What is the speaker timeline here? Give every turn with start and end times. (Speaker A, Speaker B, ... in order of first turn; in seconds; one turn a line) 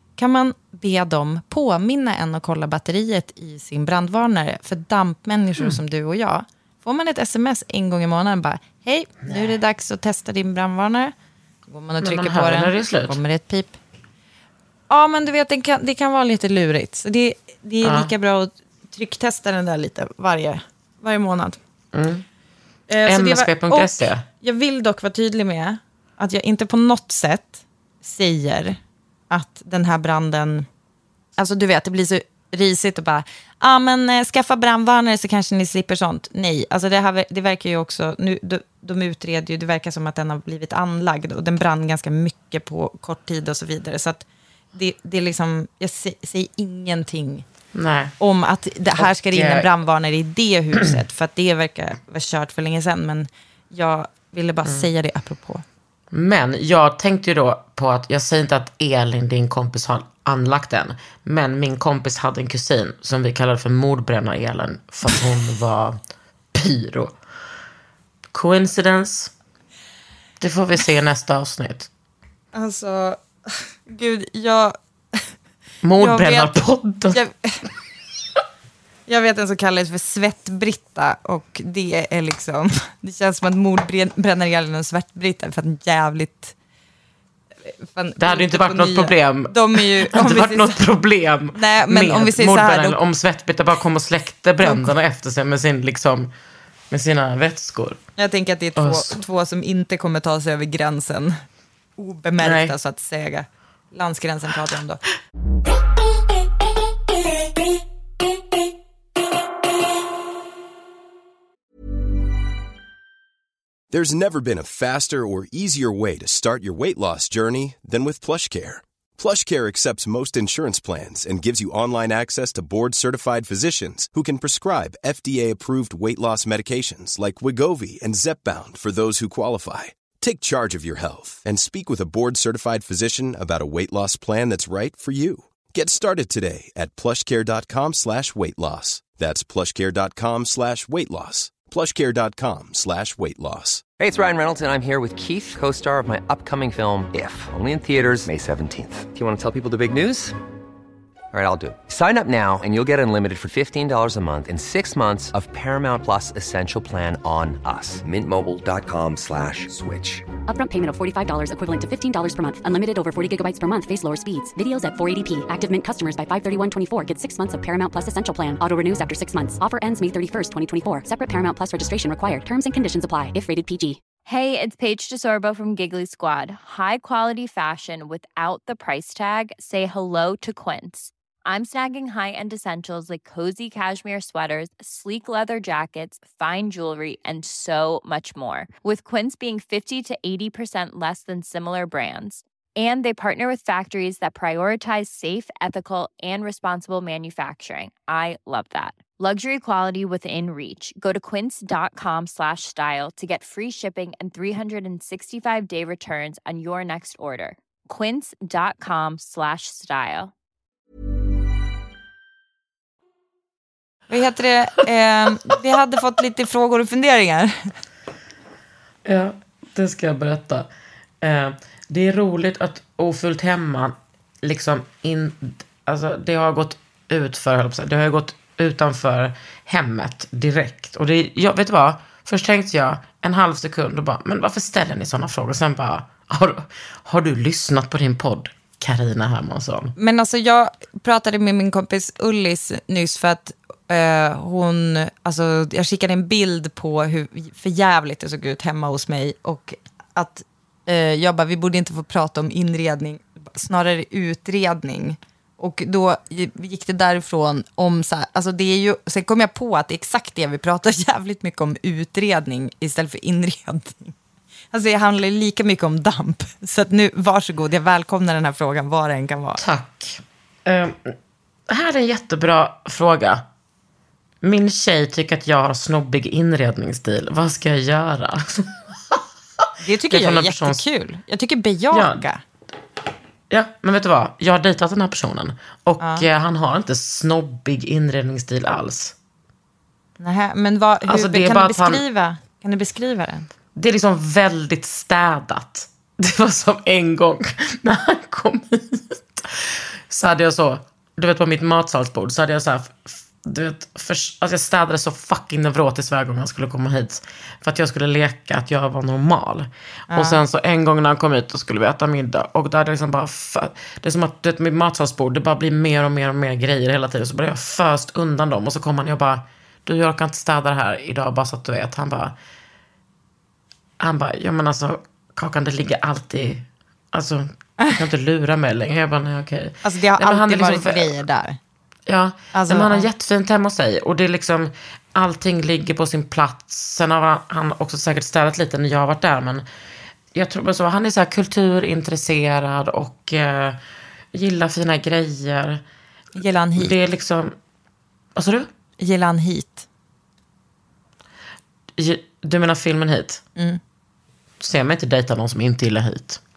Speaker A: 0.2-11.1
Speaker B: 9.3-9.5
Speaker A: 11.7-13.8
Speaker B: 12.0-13.2
Speaker A: 14.9-21.6
Speaker B: 17.8-18.1
Speaker B: 21.9-22.2
Speaker A: 22.9-28.8
Speaker B: 23.0-24.2
Speaker A: 29.3-30.6
Speaker A: 31.4-47.4
Speaker B: 47.7-48.1
Speaker A: 48.2-55.6
Speaker B: 49.0-49.7
Speaker B: 56.1-66.0
Speaker B: 66.5-67.2
Speaker B: 68.3-69.3
Speaker B: 70.4-71.9
Speaker A: 72.5-75.2
Speaker B: 75.8-77.2
Speaker A: 76.0-77.6
Speaker A: 79.1-86.5
Speaker A: 87.7-90.8
Speaker B: 88.2-96.3
Speaker A: 91.5-93.0
Speaker A: 94.6-94.9
Speaker B: 96.9-98.0
Speaker A: 98.2-101.3
Speaker B: 98.8-99.2
Speaker A: 102.0-105.0
Speaker B: 102.4-102.7
Speaker C: 113.9-143.8
Speaker D: 144.0-150.3
Speaker D: 151.3-160.2
Speaker E: 160.4-174.0
Speaker F: 174.2-210.3
Speaker A: 214.1-217.7
Speaker B: 219.0-220.7
Speaker B: 221.2-239.9
Speaker A: 240.0-264.1
Speaker A: 264.7-269.6
Speaker B: 269.6-271.1
Speaker B: 271.7-273.4
Speaker B: 274.4-279.2
Speaker A: 279.8-282.4
Speaker B: 280.1-280.8
Speaker B: 281.9-282.2
Speaker B: 283.5-289.1
Speaker A: 286.0-286.3
Speaker A: 290.2-293.5
Speaker B: 291.1-292.0
Speaker B: 293.7-322.3
Speaker A: 310.1-310.4
Speaker B: 324.0-331.1
Speaker A: 329.8-331.6
Speaker B: 332.1-339.6
Speaker A: 332.5-333.1
Speaker B: 340.3-343.8
Speaker B: 344.3-345.8
Speaker A: 346.4-346.9
Speaker B: 346.8-347.6
Speaker B: 348.3-348.7
Speaker A: 349.0-349.9
Speaker B: 352.0-353.4
Speaker B: 354.6-356.4